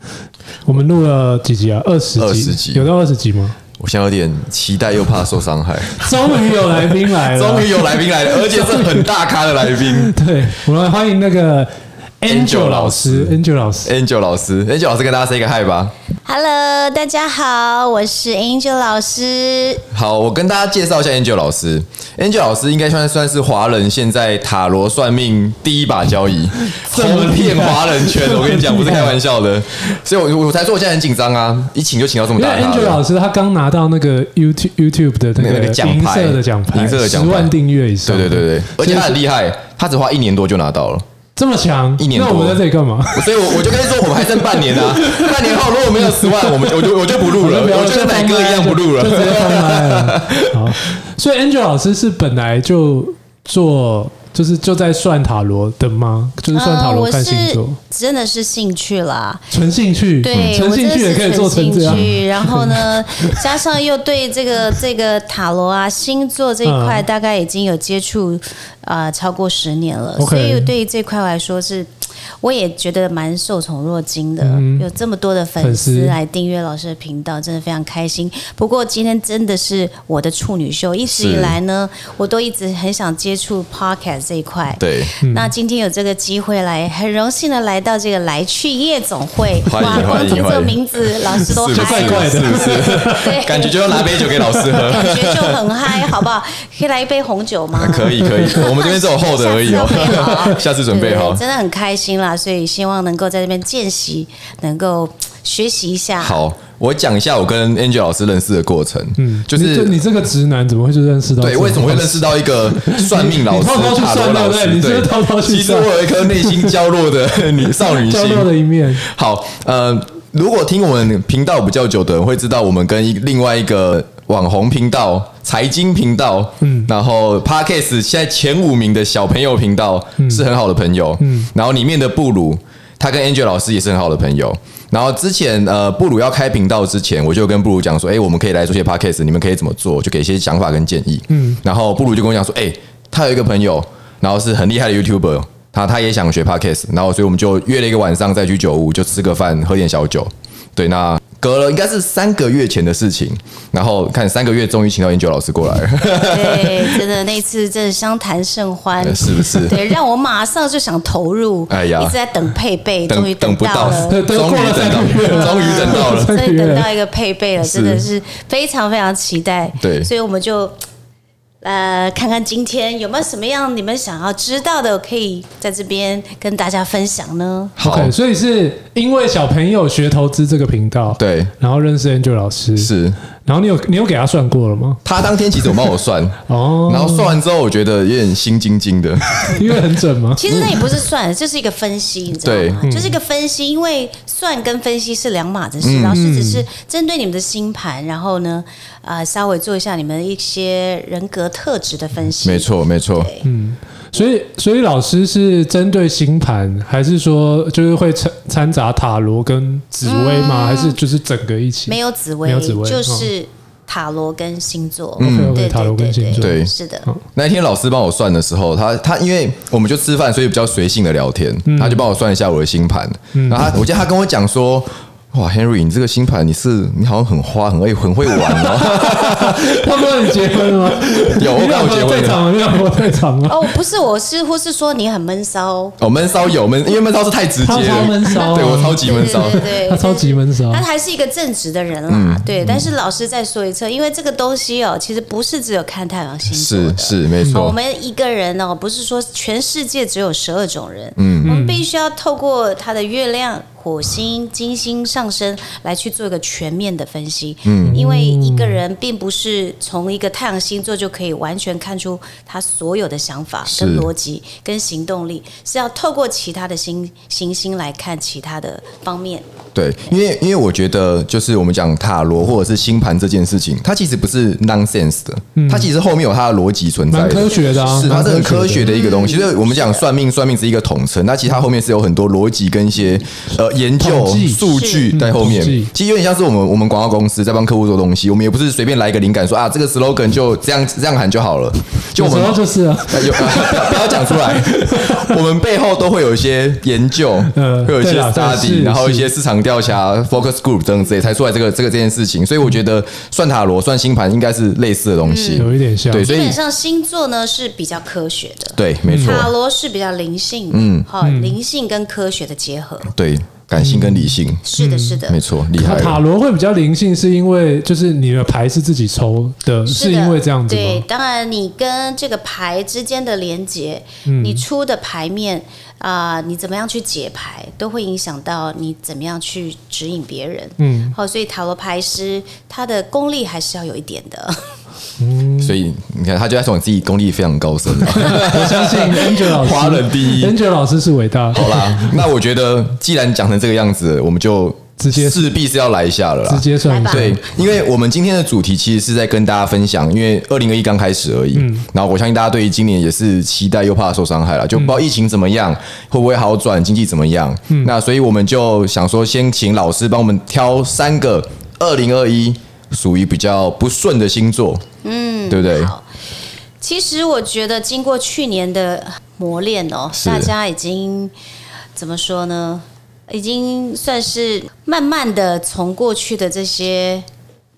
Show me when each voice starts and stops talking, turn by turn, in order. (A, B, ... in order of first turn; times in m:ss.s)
0:00.6-0:03.6 A
0:02.2-0:02.9 B
0:03.8-0:06.4 B
0:06.0-0:09.1 A
0:07.1-0:10.1 B
0:09.8-0:13.9 A
0:12.2-0:15.9 B
0:16.2-0:19.8 C
0:19.9-0:33.0 B
0:26.7-0:29.2 A
0:32.3-0:39.2 A
0:35.4-0:41.0 B
0:41.4-0:57.8 A
0:42.0-0:42.6 B
0:43.1-0:50.7 B
0:56.5-0:59.5 C
0:59.5-1:03.4 A
1:00.2-1:11.9 C
1:06.6-1:07.0 A
1:10.2-1:10.7 A
1:12.4-1:33.8 C
1:14.4-1:14.9 A
1:15.6-1:16.2 A
1:21.1-1:21.6 B
1:24.8-1:25.1 B
1:25.2-1:25.5 A
1:29.6-1:30.8 B
1:31.3-1:35.7 B
1:31.6-1:34.9 A
1:34.7-1:46.4 C
1:37.7-1:41.4 B
1:38.2-1:38.6 A
1:39.9-1:40.5 A
1:46.2-1:50.0 B
1:49.2-1:56.8 A
1:51.4-2:37.1 B
1:57.7-1:59.0 A
2:06.6-2:06.9 A
2:10.2-2:10.4 A
2:11.2-2:11.5 A
2:21.3-2:21.6 A
2:36.1-2:44.2 C
2:39.0-2:39.8 B
2:41.7-2:42.2 B
2:43.1-2:46.3 B
2:43.8-2:46.9 A
2:45.3-2:50.7 C
2:47.6-2:48.0 B
2:49.8-2:50.1 B
2:51.6-2:57.7 C
2:57.8-2:58.1 B
2:57.8-3:02.9 A
3:01.2-3:01.5 B
3:02.8-3:03.2 B
3:03.4-3:05.0 A
3:05.0-3:09.6 B
3:06.5-3:07.4 A
3:09.4-3:10.5 A
3:10.4-3:23.4 C
3:10.5-3:10.8 B
3:12.4-3:12.8 B
3:12.8-3:13.2 A
3:15.8-3:16.2 B
3:16.1-3:16.6 A
3:22.4-3:23.3 B
3:23.4-3:33.3 A
3:30.0-3:31.0 C
3:31.9-3:37.1 C
3:35.2-3:35.6 B
3:35.2-3:37.2 A
3:36.4-3:36.7 B
3:37.3-3:52.4 B
3:41.7-3:42.0 A
3:43.3-3:43.6 A
3:48.4-3:53.7 A
3:53.4-3:56.0 C
3:56.0-3:59.6 B
3:57.6-4:00.8 A
3:57.7-4:29.4 C
4:02.1-4:02.9 B
4:06.5-4:07.8 B
4:11.2-4:11.5 B
4:11.4-4:11.8 A
4:17.6-4:18.0 B
4:17.9-4:18.8 A
4:23.6-4:24.1 B
4:29.7-5:06.6 B
4:35.6-4:35.9 A
4:37.1-4:38.9 A
4:37.5-4:37.8 C
4:38.8-4:40.0 C
4:44.0-4:45.9 A
4:44.6-4:45.1 C
4:52.1-4:55.3 A
4:57.5-4:59.3 A
5:05.2-5:05.7 C
5:05.6-5:06.3 A
5:06.2-5:13.1 C
5:08.8-5:09.5 B
5:09.1-5:09.5 A
5:10.7-5:11.1 B
5:11.2-5:11.6 A
5:13.1-5:14.6 B
5:13.8-5:15.2 A
5:14.6-5:15.4 C
5:15.3-5:16.2 B
5:15.7-5:21.0 A
5:19.8-5:34.7 C
5:24.2-5:24.6 A
5:30.8-5:31.1 A
5:35.2-5:35.8 A
5:35.6-5:40.6 B
5:38.0-5:42.2 A
5:41.5-6:04.8 B
5:45.0-5:45.5 A
5:46.5-5:47.4 A
5:46.8-5:47.5 C
5:51.5-5:51.8 A
6:05.0-6:06.0 C
6:05.5-6:05.9 B
6:06.8-6:11.3 C
6:10.1-6:10.5 B
6:11.9-6:17.2 C